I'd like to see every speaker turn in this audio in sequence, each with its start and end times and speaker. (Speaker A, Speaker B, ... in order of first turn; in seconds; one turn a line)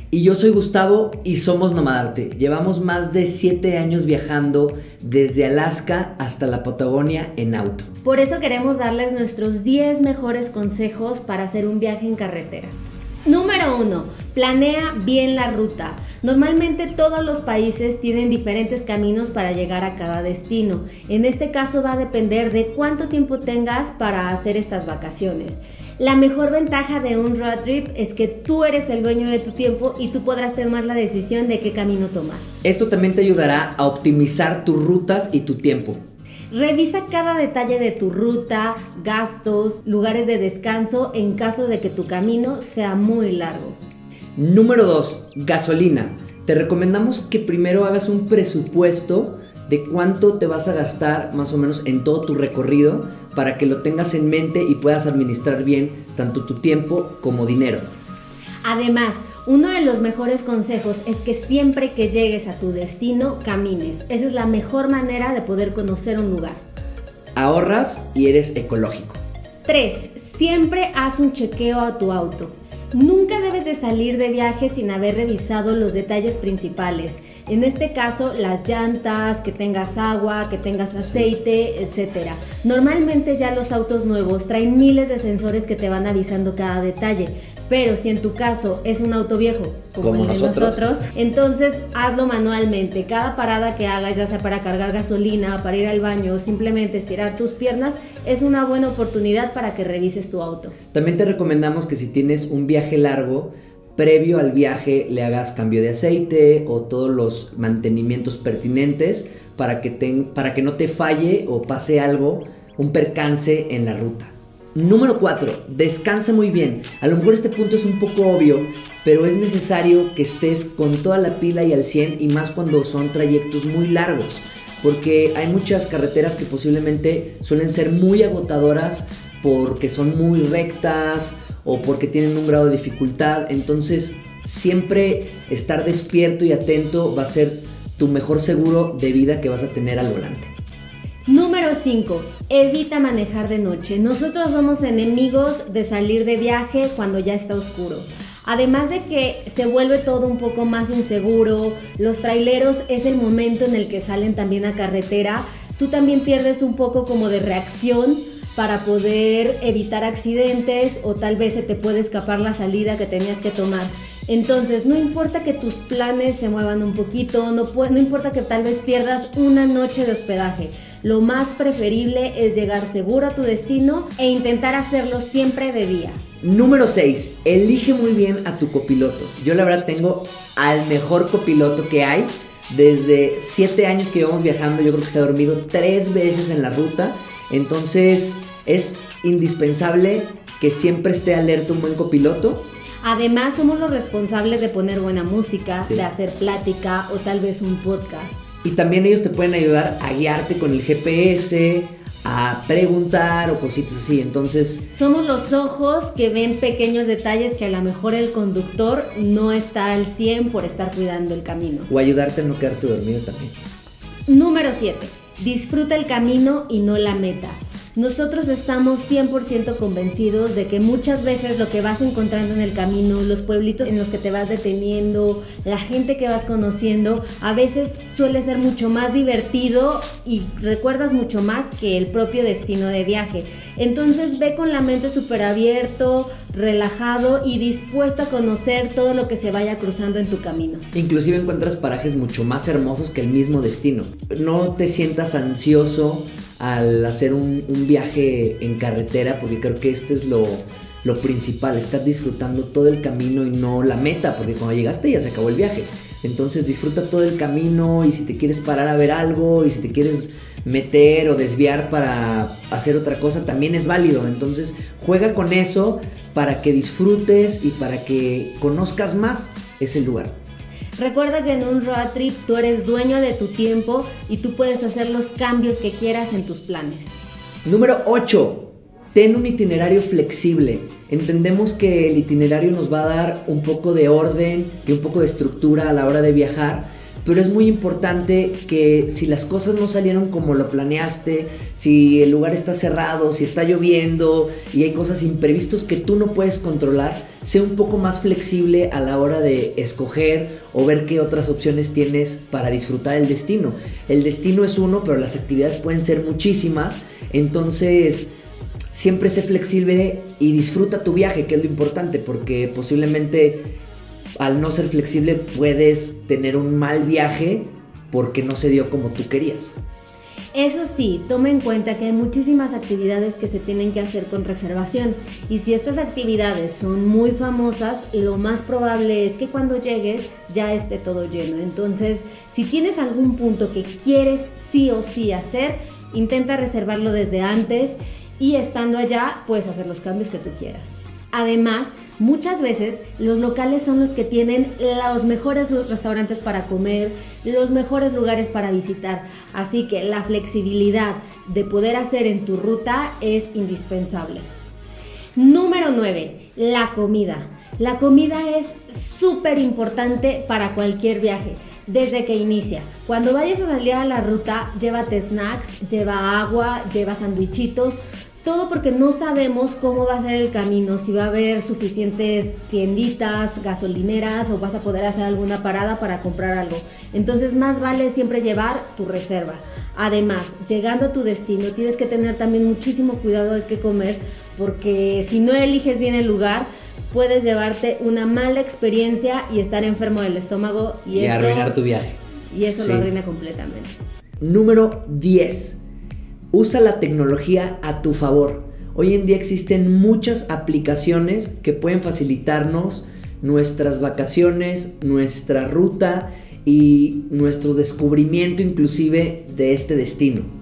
Speaker A: 0.1-7.9
Speaker B: 8.0-12.7
Speaker B: 13.2-32.5
Speaker A: 32.6-36.0
Speaker B: 36.5-43.8
Speaker A: 44.4-57.9
Speaker B: 58.6-66.6
Speaker A: 67.3-69.2
Speaker B: 69.7-100.7
Speaker A: 90.0-90.9
Speaker A: 100.9-140.5
Speaker B: 141.3-176.2
Speaker A: 176.4-192.6
Speaker B: 193.0-198.4
Speaker A: 195.8-196.1
Speaker A: 198.6-204.8
Speaker B: 204.9-211.9
Speaker A: 211.9-213.5
Speaker B: 214.3-240.8
Speaker A: 240.9-270.3
Speaker B: 271.0-277.2
Speaker A: 277.6-308.3
Speaker A: 308.9-313.6
Speaker A: 314.4-319.7
Speaker B: 320.5-354.5
Speaker B: 355.4-391.8
Speaker A: 391.1-392.2
Speaker B: 392.5-393.9
Speaker A: 392.8-393.1
Speaker A: 394.4-395.8
Speaker A: 396.5-410.5